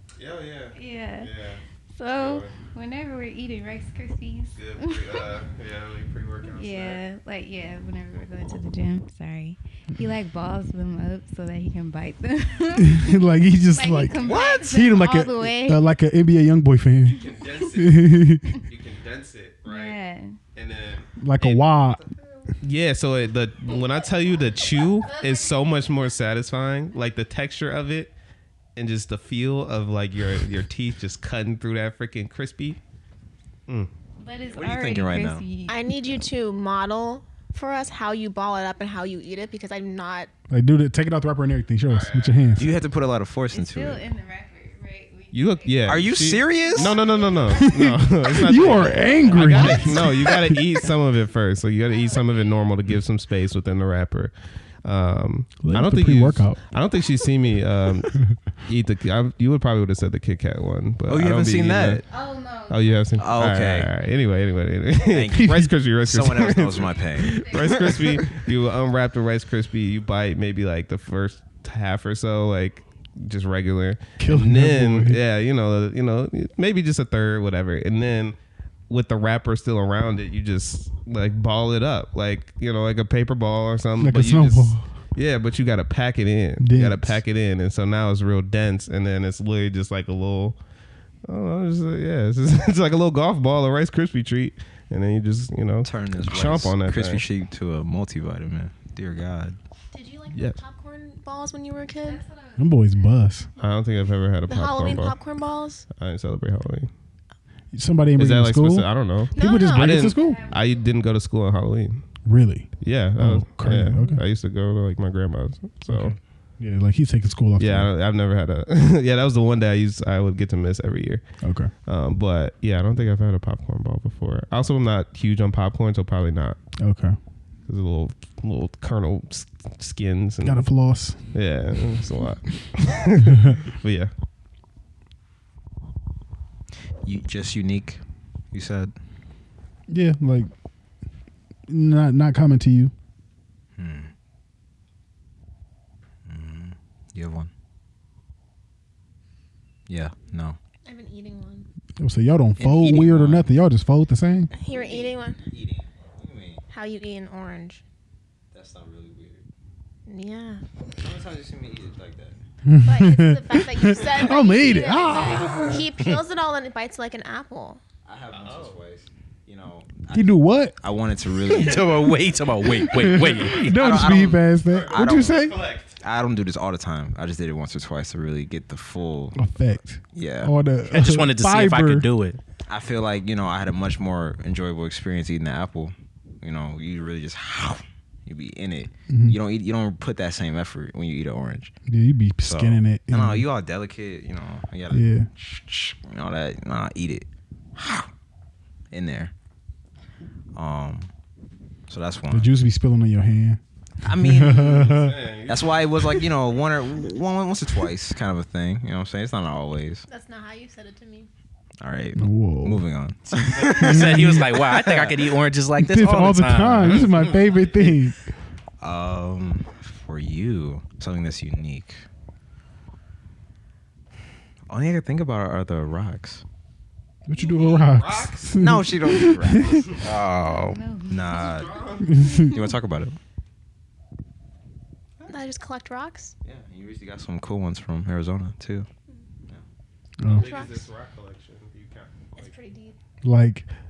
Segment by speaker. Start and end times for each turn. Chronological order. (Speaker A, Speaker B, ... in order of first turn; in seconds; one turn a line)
Speaker A: 0.2-2.5
Speaker B: 0.7-1.3
Speaker B: 1.9-5.3
Speaker A: 4.5-7.0
Speaker B: 6.4-15.8
Speaker C: 12.8-18.5
Speaker D: 14.2-15.0
Speaker A: 17.1-20.0
Speaker B: 19.6-20.4
Speaker A: 20.5-21.7
Speaker C: 21.2-22.0
Speaker A: 22.6-28.1
Speaker E: 25.1-25.6
Speaker A: 28.8-32.8
Speaker B: 34.2-35.9
Speaker D: 34.5-35.5
Speaker E: 35.7-40.3
Speaker C: 40.5-42.7
Speaker A: 41.9-42.6
Speaker D: 42.6-44.0
Speaker B: 43.5-50.4
Speaker A: 45.3-62.0
Speaker D: 45.9-47.2
Speaker C: 47.5-50.7
Speaker B: 51.8-52.6
Speaker C: 55.6-56.6
Speaker D: 61.1-62.0
Speaker B: 62.0-63.1
Speaker A: 62.7-78.3
Speaker D: 63.2-63.9
Speaker D: 65.0-68.2
Speaker C: 65.4-65.7
Speaker B: 67.2-67.8
Speaker C: 74.2-75.2
Speaker A: 78.9-90.6
Speaker C: 84.0-84.8
Speaker C: 86.6-87.2
Speaker A: 91.2-97.2
Speaker D: 95.8-99.6
Speaker E: 99.9-102.2
Speaker A: 100.3-100.6
Speaker B: 102.0-103.3
Speaker C: 102.6-103.5
Speaker A: 103.6-105.2
Speaker E: 104.5-105.8
Speaker A: 105.9-106.9
Speaker C: 107.7-110.4
Speaker A: 108.2-112.0
Speaker E: 109.3-110.1
Speaker B: 110.1-110.9
Speaker C: 112.2-114.2
Speaker A: 112.8-116.2
Speaker C: 115.9-117.9
Speaker A: 117.6-121.2
Speaker C: 121.4-121.7
Speaker A: 121.8-126.6
Speaker C: 126.8-127.2
Speaker A: 127.7-130.7
Speaker C: 130.4-131.4
Speaker A: 131.2-134.1
Speaker D: 137.0-138.9
Speaker C: 139.9-140.5
Speaker C: 141.7-142.9
Speaker D: 143.8-144.1
Speaker D: 146.2-147.5
Speaker D: 149.9-150.6
Speaker E: 150.8-151.7
Speaker C: 152.0-154.5
Speaker D: 152.6-153.4
Speaker E: 154.5-155.4
Speaker D: 154.7-156.6
Speaker E: 156.7-157.8
Speaker D: 158.5-159.4
Speaker E: 160.1-160.6
Speaker D: 161.0-162.4
Speaker C: 162.7-165.7
Speaker E: 162.8-167.8
Speaker D: 168.0-172.1
Speaker A: 168.3-168.8
Speaker C: 170.1-170.8
Speaker F: 171.4-173.7
Speaker C: 172.8-175.6
Speaker D: 173.6-179.4
Speaker A: 174.7-176.0
Speaker C: 179.3-182.1
Speaker D: 180.1-180.5
Speaker F: 180.9-182.4
Speaker D: 182.7-191.7
Speaker C: 189.1-189.4
Speaker C: 191.9-193.4
Speaker D: 192.4-198.1
Speaker C: 194.9-195.3
Speaker D: 198.9-199.3
Speaker D: 200.5-201.1
Speaker D: 201.9-202.5
Speaker C: 202.3-203.6
Speaker D: 204.0-204.8
Speaker C: 204.1-205.2
Speaker A: 204.6-205.9
Speaker D: 205.5-210.0
Speaker E: 210.1-211.3
Speaker D: 211.8-215.3
Speaker C: 212.2-212.8
Speaker F: 213.3-217.3
Speaker C: 213.8-214.4
Speaker C: 215.8-218.2
Speaker D: 218.8-222.0
Speaker D: 224.7-226.4
Speaker C: 227.3-229.8
Speaker A: 227.3-228.6
Speaker D: 228.6-229.8
Speaker A: 229.7-230.1
Speaker F: 230.0-230.8
Speaker B: 230.2-232.6
Speaker D: 231.1-233.2
Speaker A: 231.3-232.2
Speaker C: 232.1-232.5
Speaker E: 235.3-236.3
Speaker D: 236.4-238.9
Speaker C: 240.2-240.5
Speaker A: 240.3-242.6
Speaker E: 240.3-240.9
Speaker E: 242.3-242.9
Speaker C: 243.2-243.7